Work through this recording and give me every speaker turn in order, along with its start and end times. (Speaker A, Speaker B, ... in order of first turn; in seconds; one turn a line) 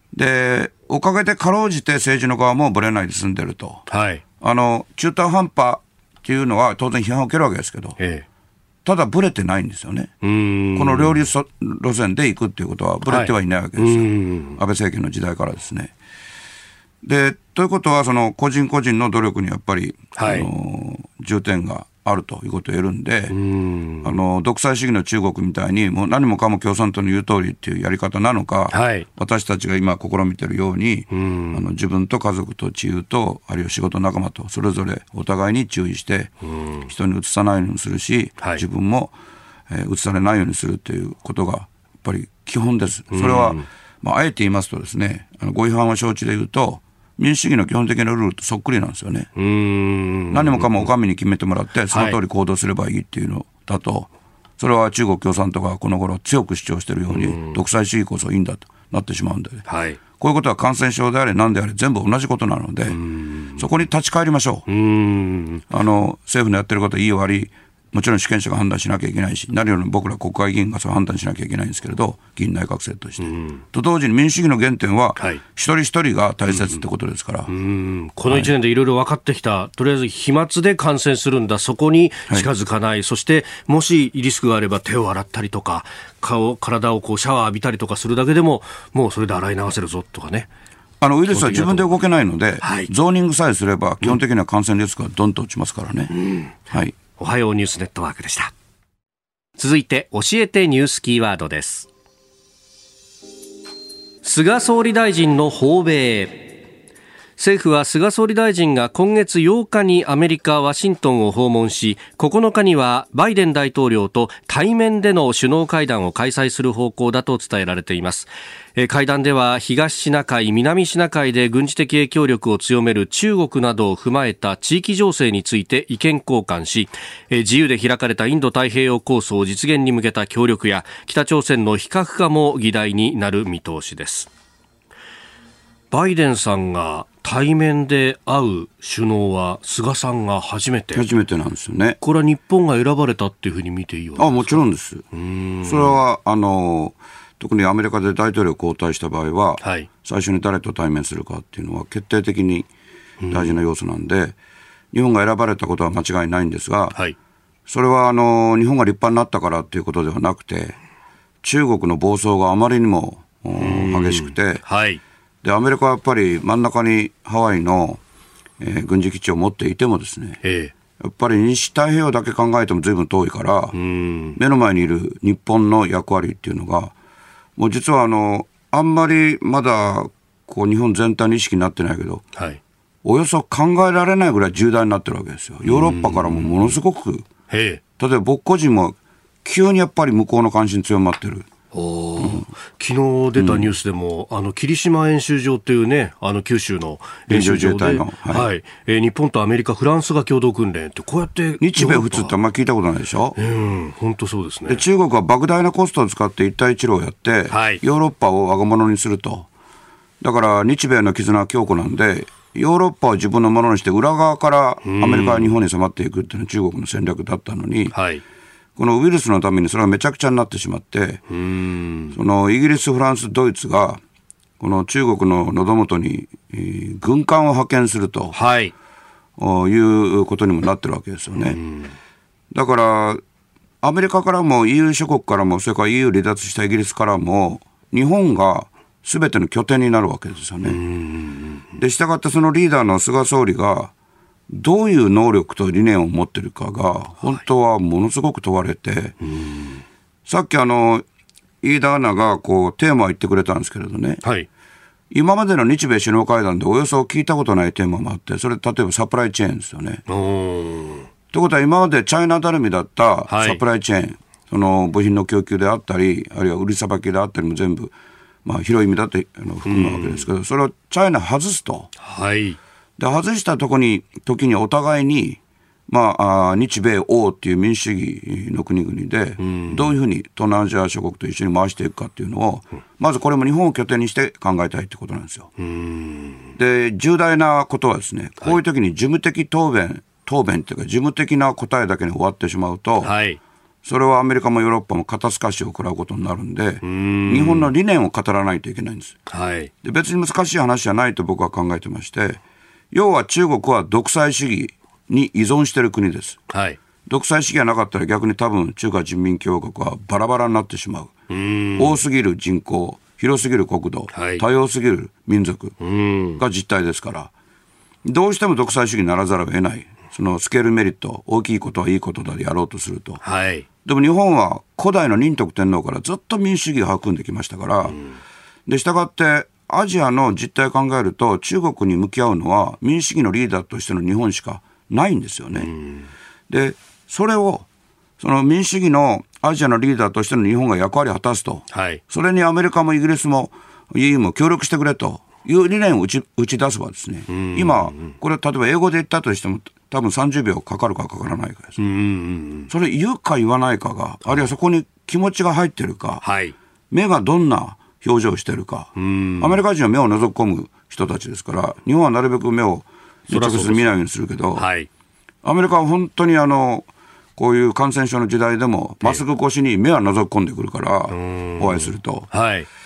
Speaker A: 0.1-3.9
Speaker B: 3.9-4.2
Speaker A: 4.4-8.0
Speaker B: 8.0-8.3
Speaker A: 8.8-10.1
Speaker B: 10.2-11.3
Speaker A: 10.8-15.9
Speaker B: 13.1-14.6
Speaker A: 17.0-23.4
Speaker B: 20.2-20.5
Speaker B: 23.3-24.2
Speaker A: 24.0-36.3
Speaker B: 28.7-29.1
Speaker B: 31.1-31.6
Speaker B: 36.4-36.9
Speaker A: 36.9-39.1
Speaker A: 39.7-49.3
Speaker B: 43.1-43.7
Speaker B: 49.4-50.9
Speaker A: 50.3-59.6
Speaker B: 51.9-52.2
Speaker B: 57.1-57.6
Speaker B: 59.7-60.0
Speaker A: 60.2-63.0
Speaker B: 62.9-63.7
Speaker A: 63.6-64.7
Speaker B: 64.7-65.7
Speaker A: 65.7-77.5
Speaker B: 73.2-73.6
Speaker B: 75.2-75.4
Speaker B: 77.5-90.5
Speaker A: 91.0-96.1
Speaker B: 91.3-92.0
Speaker B: 92.6-92.9
Speaker B: 96.1-96.6
Speaker A: 96.7-97.0
Speaker B: 97.2-98.5
Speaker B: 99.6-101.9
Speaker B: 104.2-106.5
Speaker B: 107.4-134.3
Speaker B: 135.9-141.1
Speaker A: 140.9-142.0
Speaker B: 142.0-144.6
Speaker A: 144.2-145.1
Speaker B: 145.1-146.0
Speaker A: 145.7-152.7
Speaker B: 149.6-149.9
Speaker B: 153.2-153.6
Speaker A: 153.3-154.4
Speaker A: 154.9-157.0
Speaker A: 157.7-160.8
Speaker A: 161.4-164.6
Speaker B: 163.6-165.0
Speaker A: 165.4-168.0
Speaker A: 168.6-170.4
Speaker B: 170.4-170.7
Speaker A: 171.0-173.8
Speaker B: 173.7-174.4
Speaker A: 174.4-176.9
Speaker A: 177.6-182.2
Speaker B: 182.3-182.6
Speaker A: 183.0-187.3
Speaker B: 185.6-186.7
Speaker B: 187.5-187.8
Speaker A: 188.0-191.5
Speaker B: 191.7-202.3
Speaker A: 192.2-192.5
Speaker A: 193.4-193.7
Speaker A: 197.3-198.5
Speaker A: 201.6-203.4
Speaker B: 203.4-204.8
Speaker A: 204.7-209.5
Speaker B: 207.5-207.8
Speaker A: 210.2-217.9
Speaker B: 214.8-215.5
Speaker B: 217.9-218.2
Speaker A: 218.8-221.2
Speaker B: 221.3-222.2
Speaker A: 222.1-224.0
Speaker A: 224.6-228.4
Speaker B: 228.3-228.7
Speaker A: 229.4-231.6
Speaker B: 231.5-231.9
Speaker A: 232.5-233.2
Speaker A: 233.8-240.8
Speaker B: 240.6-241.6
Speaker A: 241.8-243.9
Speaker A: 244.5-249.2
Speaker B: 249.2-249.8
Speaker A: 250.3-251.1
Speaker A: 251.6-254.2
Speaker A: 255.1-260.0
Speaker B: 260.1-261.1
Speaker A: 261.3-267.9
Speaker B: 263.3-263.6
Speaker A: 268.4-271.9
Speaker B: 269.6-270.3
Speaker B: 272.0-272.6
Speaker A: 273.0-285.5
Speaker B: 279.4-279.9
Speaker B: 285.6-286.5
Speaker A: 286.6-293.1
Speaker B: 293.0-293.4
Speaker A: 293.9-299.2
Speaker B: 296.8-297.7
Speaker B: 299.3-299.7
Speaker A: 299.8-302.4
Speaker A: 302.9-306.4
Speaker B: 306.5-306.8
Speaker A: 307.1-311.1
Speaker B: 311.3-312.0
Speaker A: 311.8-315.8
Speaker B: 314.1-314.4
Speaker B: 315.8-316.4
Speaker A: 316.4-317.3
Speaker A: 318.0-323.2
Speaker B: 323.2-323.7
Speaker A: 323.8-328.0
Speaker B: 327.9-328.2
Speaker A: 328.7-335.7
Speaker B: 335.6-336.1
Speaker A: 336.5-337.6
Speaker A: 338.2-351.8
Speaker B: 341.7-342.0
Speaker B: 347.3-348.1
Speaker B: 351.8-352.7
Speaker A: 352.7-356.2
Speaker B: 356.2-356.6
Speaker A: 356.9-364.7
Speaker B: 359.0-359.6
Speaker B: 363.3-363.9
Speaker B: 364.6-364.9
Speaker A: 365.4-372.3
Speaker B: 371.1-372.7